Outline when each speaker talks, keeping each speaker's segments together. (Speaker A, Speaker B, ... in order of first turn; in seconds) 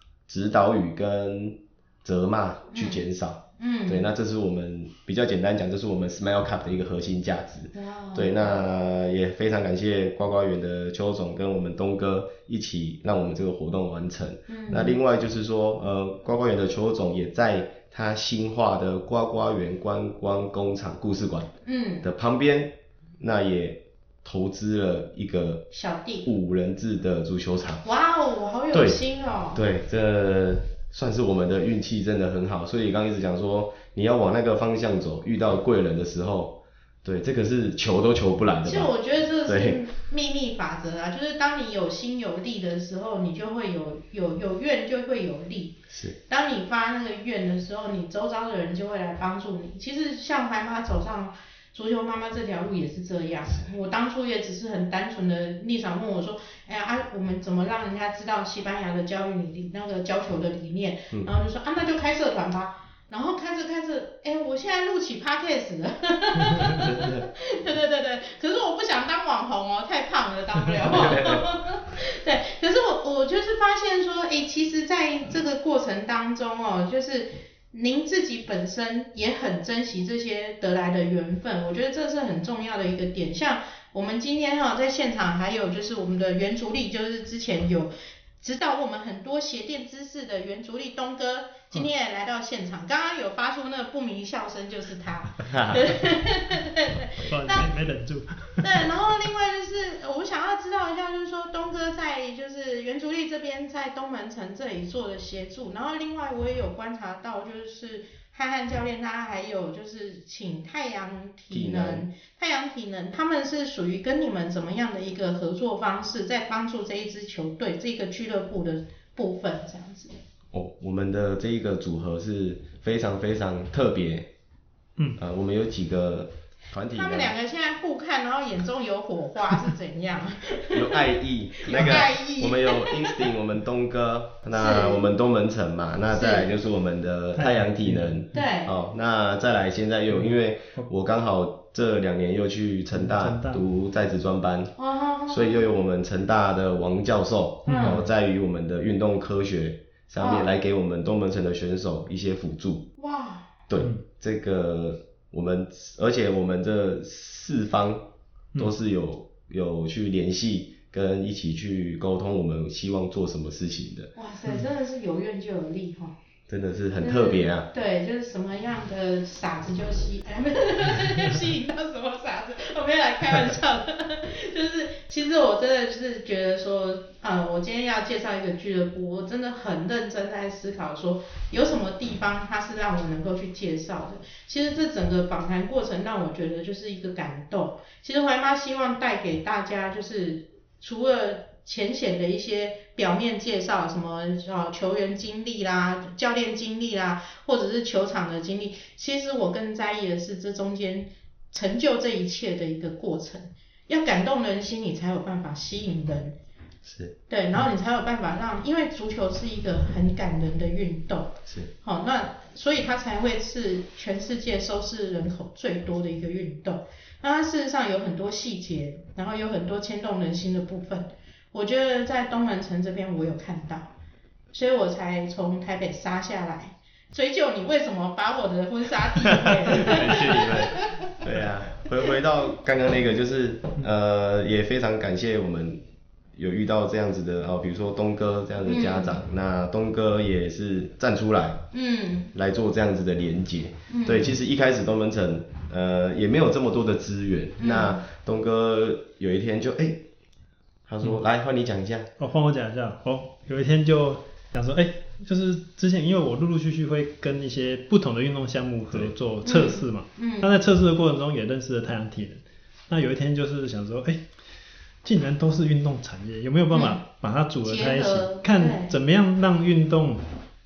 Speaker A: 0.3-21.5, 22.0-25.7, 26.2-27.8, 28.7-29.0, 29.6-38.9, 39.5-39.8, 45.9-46.2, 66.8-67.3, 70.9-71.5, 95.4-95.9, 111.5-112.0, 120.5-124.3, 125.2-127.3, 130.7-144.8, 145.3-152.9, 153.7-164.1, 166.5-167.7, 206.8-207.2, 229.1-235.8, 236.3-241.7, 242.3-250.1, 250.9-252.1
Speaker B: 2.7-3.0, 3.6-4.1, 7.7-8.6, 14.5-15.0, 21.6-22.1, 25.7-26.3, 27.8-29.6, 38.6-97.7, 98.6-120.2, 126.9-133.3, 134.5-135.0, 136.1-136.5, 138.3-138.7, 144.8-145.6, 147.7-148.0, 150.2-150.5, 153.0-153.6, 164.2-166.1, 167.0-206.4, 207.3-223.9, 224.5-231.2, 238.6-239.2, 241.7-242.3, 243.9-244.3, 247.6-248.0, 259.4-260.5, 266.7-267.0, 267.6-268.9
Speaker C: 97.3-98.9, 137.4-138.3, 142.9-143.6, 147.7-148.0, 252.2-264.2, 265.0-270.3